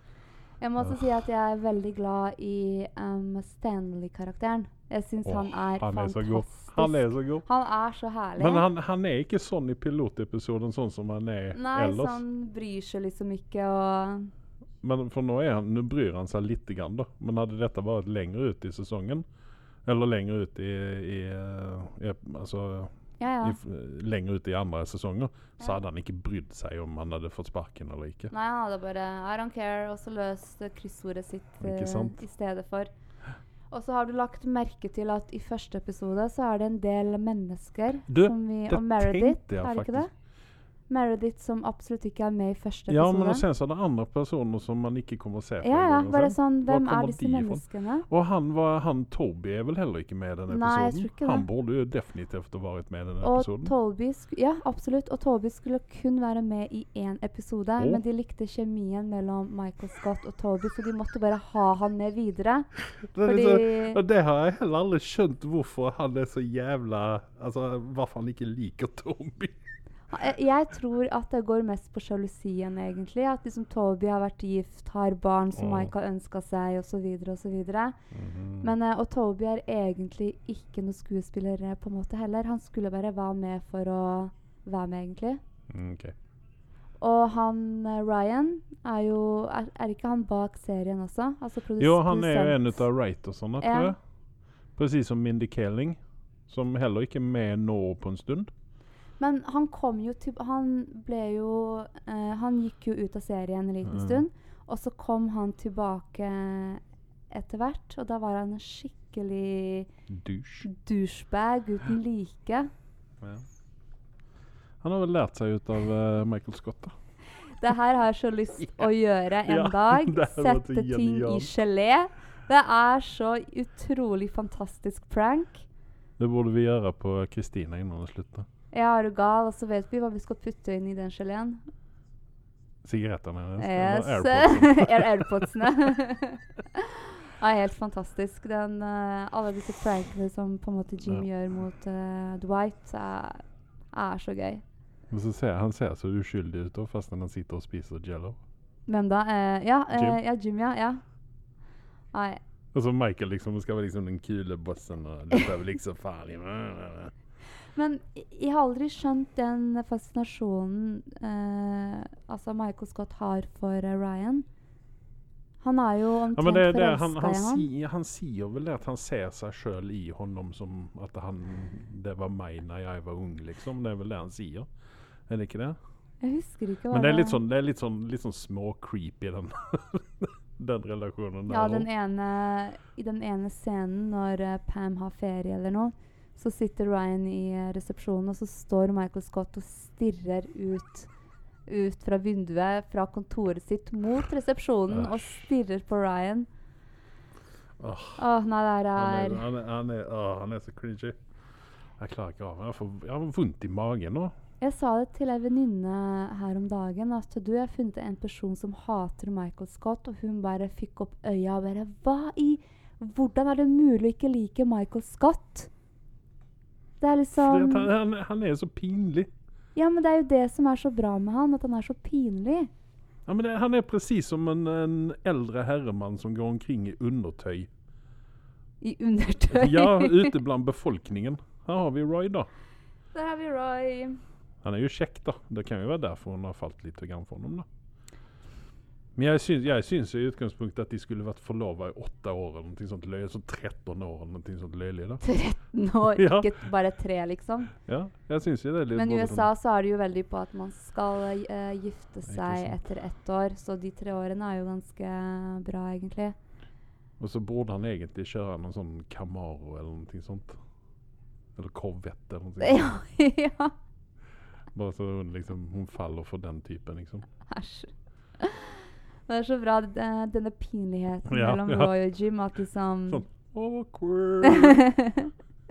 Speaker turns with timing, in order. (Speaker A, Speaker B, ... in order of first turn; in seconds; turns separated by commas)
Speaker A: 0.6-8.7, Speaker B: 5.2-7.5, Speaker B: 8.4-12.2, Speaker A: 11.5-14.3, Speaker B: 14.8-19.2, Speaker B: 19.8-28.3, Speaker A: 23.2-23.6, Speaker A: 28.3-32.9, Speaker B: 31.6-32.2, Speaker A: 33.7-40.1, Speaker B: 38.1-40.1, Speaker A: 40.9-43.4, Speaker B: 42.9-53.7, Speaker A: 45.6-48.1, Speaker A: 50.5-51.5, Speaker A: 53.2-62.7, Speaker B: 63.1-69.6, Speaker A: 63.2-64.0, Speaker A: 70.1-78.0, Speaker B: 75.5-75.9, Speaker B: 78.1-78.7, Speaker A: 78.6-85.4, Speaker B: 85.7-86.1, Speaker A: 87.0-92.8, Speaker B: 91.8-94.0, Speaker A: 93.6-93.9, Speaker B: 94.8-98.5, Speaker A: 99.2-109.9, Speaker B: 103.9-104.2, Speaker B: 110.1-110.7, Speaker A: 110.6-112.7, Speaker B: 114.8-116.9, Speaker A: 117.6-125.7, Speaker B: 119.5-121.5, Speaker B: 126.2-128.5, Speaker A: 128.7-131.6, Speaker B: 132.8-135.9, Speaker A: 133.6-144.6, Speaker B: 145.1-148.4, Speaker A: 148.9-151.0, Speaker B: 149.9-150.2, Speaker A: 152.1-152.4, Speaker B: 152.7-157.1, Speaker A: 157.7-164.4, Speaker A: 165.6-167.7, Speaker B: 166.3-174.7, Speaker B: 175.3-175.8, Speaker A: 176.2-177.4, Speaker B: 176.9-181.9, Speaker A: 181.5-191.1, Speaker A: 191.7-196.5, Speaker B: 194.9-195.4, Speaker B: 197.8-198.2, Speaker A: 198.2-199.4, Speaker B: 198.9-201.2, Speaker B: 202.0-204.3, Speaker A: 204.6-215.7, Speaker A: 217.0-217.9, Speaker B: 217.4-219.3, Speaker A: 219.7-222.7, Speaker B: 223.2-227.7, Speaker A: 228.8-230.3, Speaker B: 229.5-232.5, Speaker A: 233.1-234.2, Speaker B: 234.6-237.7, Speaker B: 239.2-245.2, Speaker A: 245.2-247.7, Speaker B: 246.1-246.5, Speaker B: 247.8-249.5, Speaker A: 248.9-256.4, Speaker B: 252.3-252.8, Speaker B: 257.2-260.6, Speaker B: 261.6-262.9, Speaker A: 262.6-263.7, Speaker B: 264.7-267.2, Speaker A: 267.5-273.2, Speaker B: 271.3-271.9, Speaker B: 273.1-274.9, Speaker A: 274.4-275.3